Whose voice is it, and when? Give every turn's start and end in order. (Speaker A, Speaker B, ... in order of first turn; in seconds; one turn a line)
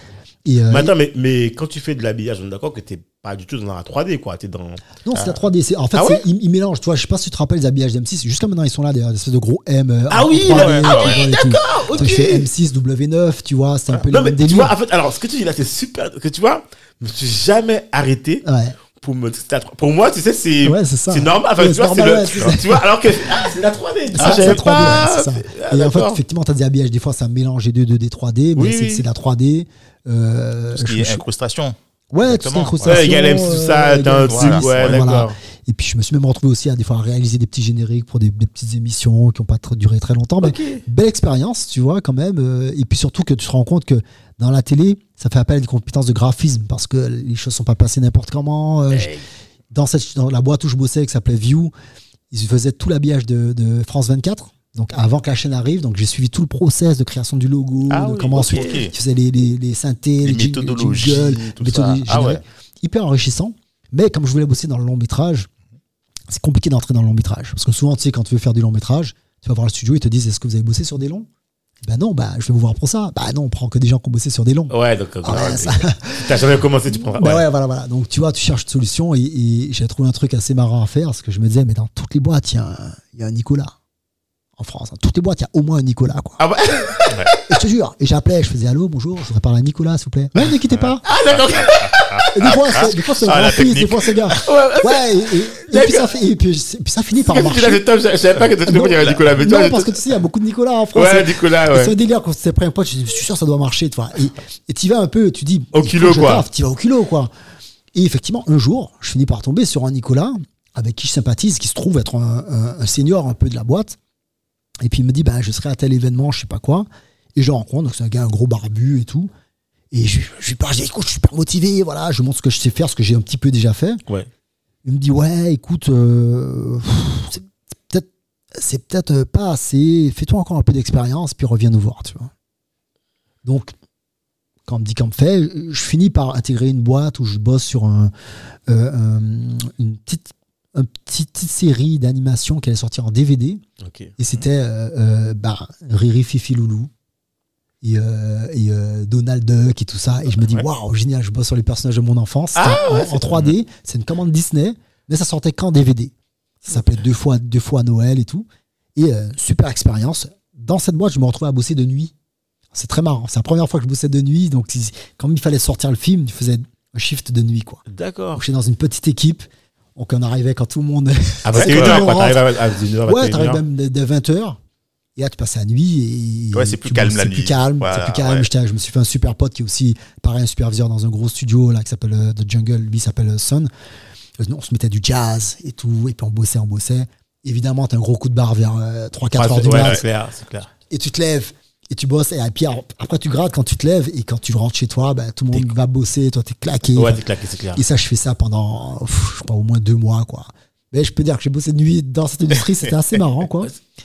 Speaker A: 0.5-0.9
Speaker B: 0.7-4.8
Speaker A: 5.0-14.7
Speaker B: 5.9-6.2
Speaker B: 10.1-12.5
Speaker C: 10.5-11.2
Speaker B: 14.1-26.2
Speaker A: 18.4-18.8
Speaker A: 20.6-23.4
Speaker A: 24.2-31.2
Speaker C: 24.2-25.0
Speaker B: 28.6-29.1
Speaker C: 30.8-33.0
Speaker A: 32.1-49.1
Speaker B: 32.8-35.4
Speaker C: 34.3-35.0
Speaker B: 40.4-40.8
Speaker B: 48.9-49.2
Speaker A: 49.7-51.7
Speaker A: 52.3-65.5
Speaker C: 57.9-58.9
Speaker B: 58.4-58.9
Speaker C: 60.2-62.4
Speaker B: 62.1-62.4
Speaker A: 66.3-71.3
Speaker A: 71.8-76.4
Speaker B: 74.7-77.5
Speaker A: 77.0-83.8
Speaker A: 84.6-86.4
Speaker B: 86.4-87.4
Speaker A: 87.5-91.1
Speaker C: 90.8-94.4
Speaker B: 91.0-92.3
Speaker A: 92.3-97.8
Speaker B: 94.4-96.1
Speaker B: 97.2-99.9
Speaker A: 98.7-107.3
Speaker B: 100.9-101.9
Speaker B: 105.7-106.5
Speaker A: 108.0-114.0
Speaker A: 114.8-119.3
Speaker A: 119.9-124.0
Speaker A: 124.8-132.3
Speaker A: 133.4-133.7
Speaker A: 134.7-138.1
Speaker A: 138.7-143.6
Speaker B: 143.8-144.1
Speaker A: 144.2-146.9
Speaker A: 147.8-162.1
Speaker B: 152.6-153.6
Speaker A: 162.7-167.8
Speaker B: 167.9-168.4
Speaker A: 168.3-172.4
Speaker B: 171.4-173.6
Speaker C: 171.5-172.1
Speaker A: 173.1-174.6
Speaker A: 175.2-183.7
Speaker C: 176.5-178.5
Speaker A: 184.4-190.0
Speaker B: 189.3-190.7
Speaker C: 189.7-190.0
Speaker A: 190.9-197.2
Speaker B: 196.9-197.8
Speaker A: 197.8-203.8